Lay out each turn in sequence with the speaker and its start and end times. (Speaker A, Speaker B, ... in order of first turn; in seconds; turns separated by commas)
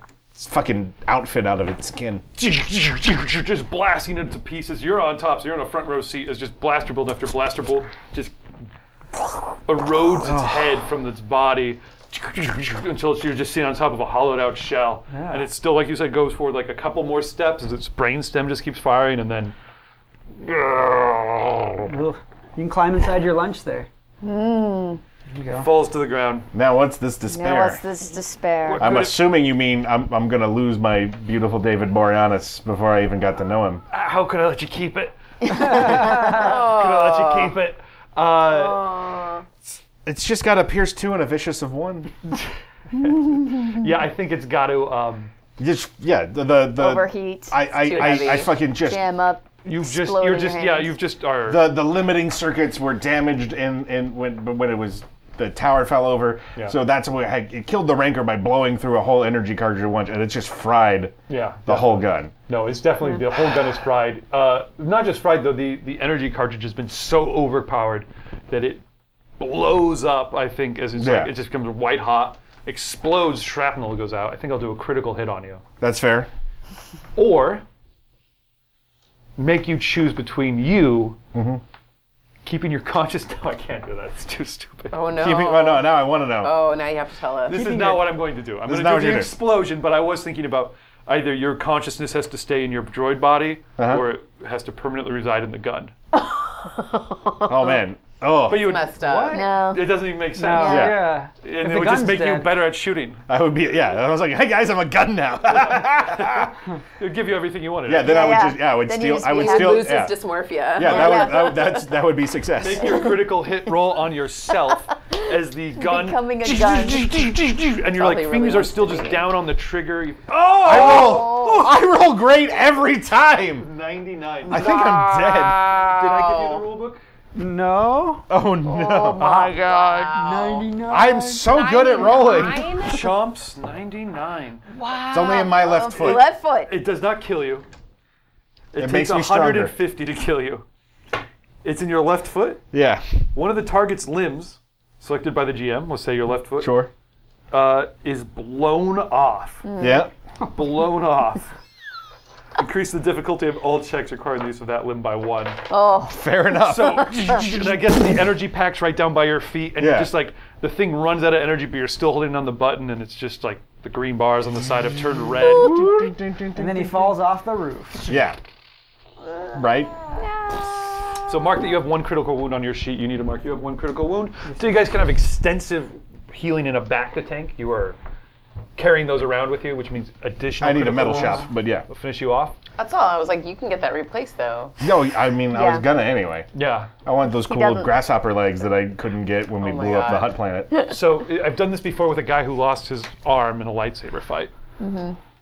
Speaker A: 0.3-2.2, Speaker B: 2.4-8.3, Speaker B: 9.6-19.5, Speaker A: 10.2-10.7, Speaker C: 15.1-15.5, Speaker B: 20.4-21.9, Speaker C: 21.9-23.9, Speaker D: 24.2-25.0, Speaker C: 25.3-25.7, Speaker B: 25.5-26.5, Speaker A: 26.5-27.8, Speaker D: 27.3-28.9, Speaker B: 28.6-29.2, Speaker A: 28.8-33.8, Speaker B: 33.9-38.9, Speaker C: 35.7-36.2, Speaker E: 36.1-37.5, Speaker E: 38.5-39.4, Speaker A: 40.0-42.1, Speaker B: 43.0-45.3, Speaker A: 45.6-49.1, Speaker D: 46.8-51.0, Speaker E: 47.7-48.5, Speaker B: 49.6-51.7, Speaker A: 51.5-62.3, Speaker B: 61.3-68.8, Speaker B: 69.4-75.6, Speaker A: 70.9-71.4, Speaker A: 75.8-76.3, Speaker B: 77.2-77.6, Speaker B: 79.4-81.2, Speaker A: 81.3-81.6, Speaker B: 82.4-85.0, Speaker E: 84.9-87.9, Speaker A: 85.2-86.5, Speaker B: 87.5-95.9, Speaker C: 87.5-88.0, Speaker A: 88.6-89.4, Speaker A: 93.8-94.0, Speaker A: 97.4-98.8, Speaker B: 98.5-103.2, Speaker E: 98.5-99.5, Speaker C: 99.0-99.5, Speaker D: 99.3-101.0, Speaker C: 100.3-102.6, Speaker A: 100.7-101.1, Speaker A: 103.3-106.5, Speaker B: 105.5-108.5, Speaker A: 107.8-110.2, Speaker D: 108.0-110.0, Speaker E: 109.3-111.9, Speaker A: 110.7-113.1, Speaker D: 110.8-111.6, Speaker B: 112.6-121.7, Speaker D: 115.8-117.2, Speaker E: 117.9-119.3, Speaker A: 120.6-123.7, Speaker D: 120.8-121.7, Speaker B: 123.6-124.8, Speaker A: 124.5-125.7, Speaker E: 124.5-126.6, Speaker B: 125.7-127.0, Speaker C: 127.3-128.3, Speaker A: 128.3-129.3, Speaker D: 128.7-129.7, Speaker E: 129.2-130.7, Speaker B: 129.2-130.0, Speaker C: 130.1-131.5, Speaker D: 130.4-130.9, Speaker A: 130.9-132.8, Speaker E: 131.4-133.2, Speaker B: 132.8-134.6, Speaker D: 134.8-136.8, Speaker E: 134.9-135.5, Speaker A: 135.1-136.3, Speaker B: 136.0-137.7, Speaker B: 138.7-140.6, Speaker A: 138.8-139.8, Speaker B: 141.6-142.7, Speaker A: 142.7-143.0, Speaker B: 143.3-146.8, Speaker A: 146.6-146.9, Speaker B: 147.5-149.7, Speaker D: 149.6-150.1, Speaker A: 149.8-150.1, Speaker B: 150.5-151.5, Speaker B: 152.6-155.6, Speaker D: 155.7-156.2, Speaker A: 156.0-157.4, Speaker B: 156.6-165.9, Speaker A: 159.8-160.1, Speaker A: 165.3-167.2, Speaker C: 166.5-168.2, Speaker A: 168.0-168.4, Speaker A: 169.5-169.9, Speaker B: 171.3-178.0, Speaker B: 178.8-182.6, Speaker A: 180.6-181.9, Speaker E: 182.8-184.7, Speaker A: 184.8-186.5, Speaker D: 185.5-185.8, Speaker B: 186.5-186.9, Speaker A: 187.0-190.9, Speaker D: 187.4-187.9, Speaker E: 189.6-190.3, Speaker B: 190.9-194.5, Speaker D: 194.8-195.2